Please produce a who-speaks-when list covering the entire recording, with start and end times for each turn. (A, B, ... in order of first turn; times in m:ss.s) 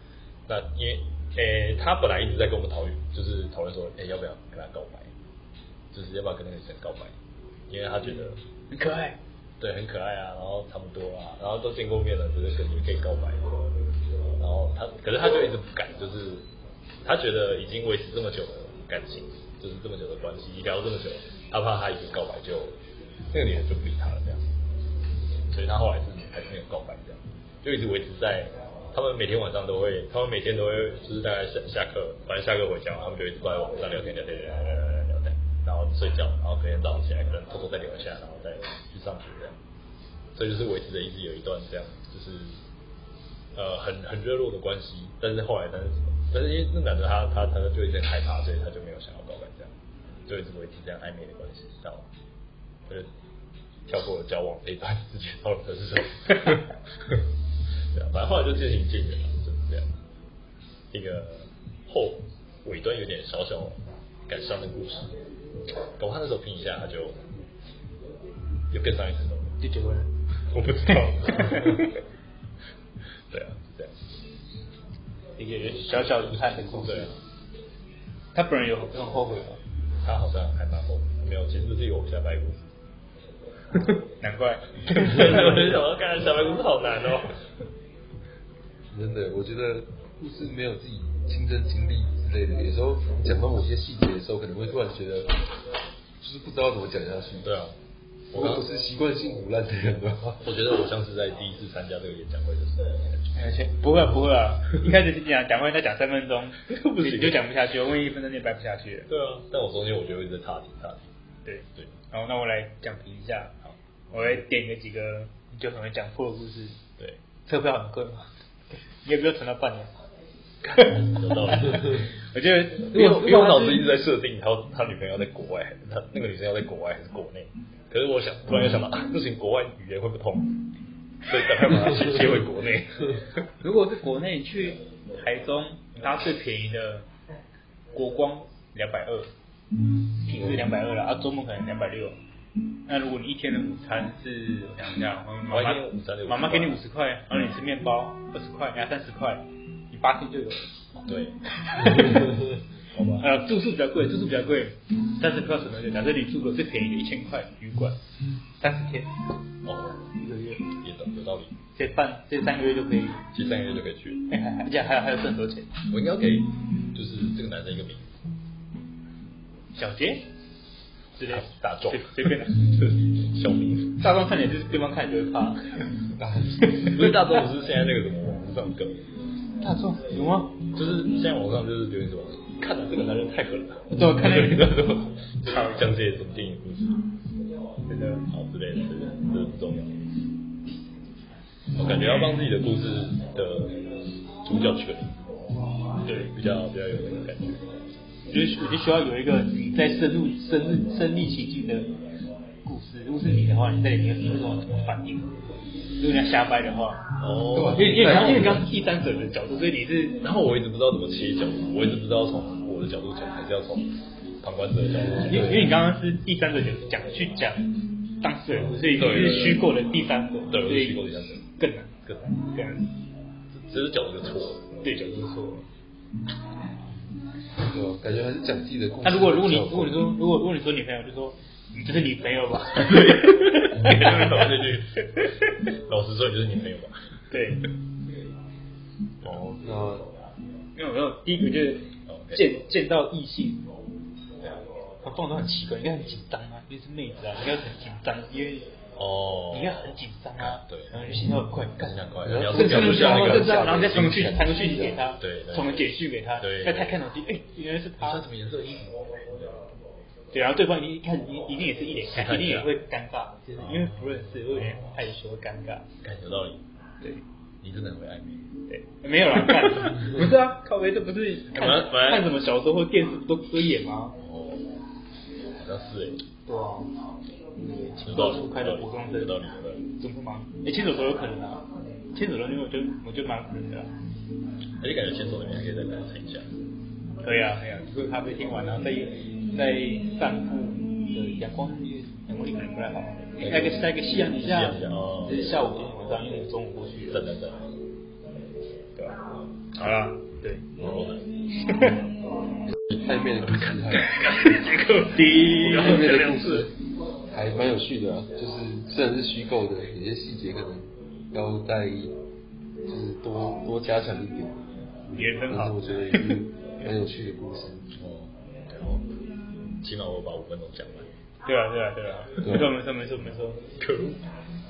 0:00.5-0:05.1 A
0:05.9-0:07.1 A
0:07.7-0:08.4 A
0:08.7-0:09.2 B
0:09.6-0:13.5 A
0:14.4-0:16.5 A
0:17.0-0:22.8 A
0:23.3-0:24.5 A
0:25.5-0:39.6 A
0:40.3-0:42.6 A
0:43.5-0:49.7 A
0:50.2-0:52.1 A
0:53.9-0:57.2 A
0:57.9-0:59.9 A
1:00.9-1:05.1 A
1:06.0-1:07.2 A
1:08.7-1:09.6 A
1:09.6-1:10.1 B
1:10.5-1:11.9 A
1:10.9-1:11.9 B
1:13.3-1:14.0 A
1:15.4-1:17.1 B
1:15.6-1:17.2 A
1:18.3-1:19.6 B
1:20.0-1:22.7 A
1:24.2-1:25.6 B
1:24.8-1:27.4 A
1:28.9-1:35.4 C
1:36.2-1:37.5 C
1:37.4-1:37.8 A
1:38.3-1:38.7 A
1:38.3-1:40.4 C
1:40.4-1:43.0 A
1:43.3-1:49.1 B
1:46.7-1:47.4 A
1:49.1-1:51.0 A
1:51.4-1:53.5 B
1:53.6-1:54.4 A
1:54.1-1:56.8 B
1:57.4-1:58.3 B
1:59.0-1:59.9 B
2:00.6-2:02.0 A
2:00.7-2:03.9 B
2:02.8-2:10.5 A
2:11.3-2:13.4 A
2:11.6-2:12.4 B
2:13.6-2:17.1 B
2:17.9-2:19.3 B
2:20.2-2:22.2 B
2:22.9-2:30.7 B
2:25.5-2:26.8 A
2:30.9-2:32.2 A
2:31.6-2:32.4 B
2:32.9-2:33.3 A
2:33.2-2:38.0 B
2:38.6-2:39.1 B
2:39.6-2:40.1 A
2:40.2-2:40.7 B
2:40.7-2:41.5 A
2:41.7-2:43.2 B
2:43.3-2:44.2 A
2:44.3-2:45.7 B
2:45.9-2:48.1 A
2:49.7-2:50.2 B
2:51.1-2:52.6 B
2:51.2-2:54.0 A
2:54.0-2:55.8 B
2:56.2-2:56.7 C
2:56.6-2:57.1 B
2:56.8-2:59.0 A
2:59.6-3:00.6 B
3:00.7-3:06.9 A
3:03.9-3:04.9 B
3:05.4-3:05.9 B
3:07.8-3:08.2 B
3:08.3-3:10.0 A
3:11.7-3:13.9 A
3:11.9-3:12.4 B
3:14.4-3:15.4 A
3:16.0-3:16.3 B
3:16.1-3:17.6 A
3:18.2-3:21.9 B
3:22.6-3:25.4 B
3:26.0-3:27.0 B
3:27.2-3:28.6 A
3:27.5-3:28.6 C
3:27.7-3:30.2 B
3:30.2-3:33.9 A
3:34.4-3:35.6 A
3:35.0-3:35.7 C
3:35.1-3:42.9 B
3:38.9-3:39.7 A
3:40.5-3:41.4 A
3:42.0-3:42.4 A
3:43.5-3:44.7 A
3:44.8-3:45.6 B
3:47.6-3:50.1 C
3:49.0-3:54.5 B
3:52.9-3:57.0 A
3:57.3-3:57.7 B
3:59.2-4:00.1 C
4:00.7-4:03.6 B
4:02.1-4:02.4 A
4:05.0-4:08.7 B
4:09.0-4:11.2 A
4:09.5-4:12.0 B
4:11.8-4:13.7 A
4:12.2-4:15.0 C
4:12.5-4:18.2 B
4:15.2-4:17.0 A
4:18.0-4:19.4 A
4:20.3-4:25.9 B
4:22.1-4:22.7 A
4:23.6-4:25.0 A
4:26.0-4:26.6 A
4:27.6-4:28.5 A
4:28.7-4:34.2 B
4:29.4-4:30.1 A
4:31.5-4:32.3 A
4:34.2-4:34.7 A
4:35.5-4:36.2 A
4:36.4-4:36.9 B
4:37.6-4:39.4 B
4:38.0-4:39.8 A
4:39.9-4:43.9 B
4:44.8-4:46.5 A
4:47.2-4:57.2 B
4:53.4-4:55.7 A
4:57.1-4:57.7 A
4:59.7-5:00.6 B
5:00.8-5:01.3 A
5:01.7-5:02.0 B
5:03.0-5:04.1 C
5:03.9-5:06.6 B
5:04.2-5:04.5 A
5:05.2-5:06.5 A
5:05.8-5:06.7 C
5:07.3-5:12.1 C
5:12.9-5:14.6 C
5:15.1-5:16.4 B
5:15.3-5:17.9 C
5:18.0-5:19.0 A
5:19.8-5:21.1 A
5:21.4-5:23.7 B
5:22.4-5:22.8 C
5:23.8-5:24.2 A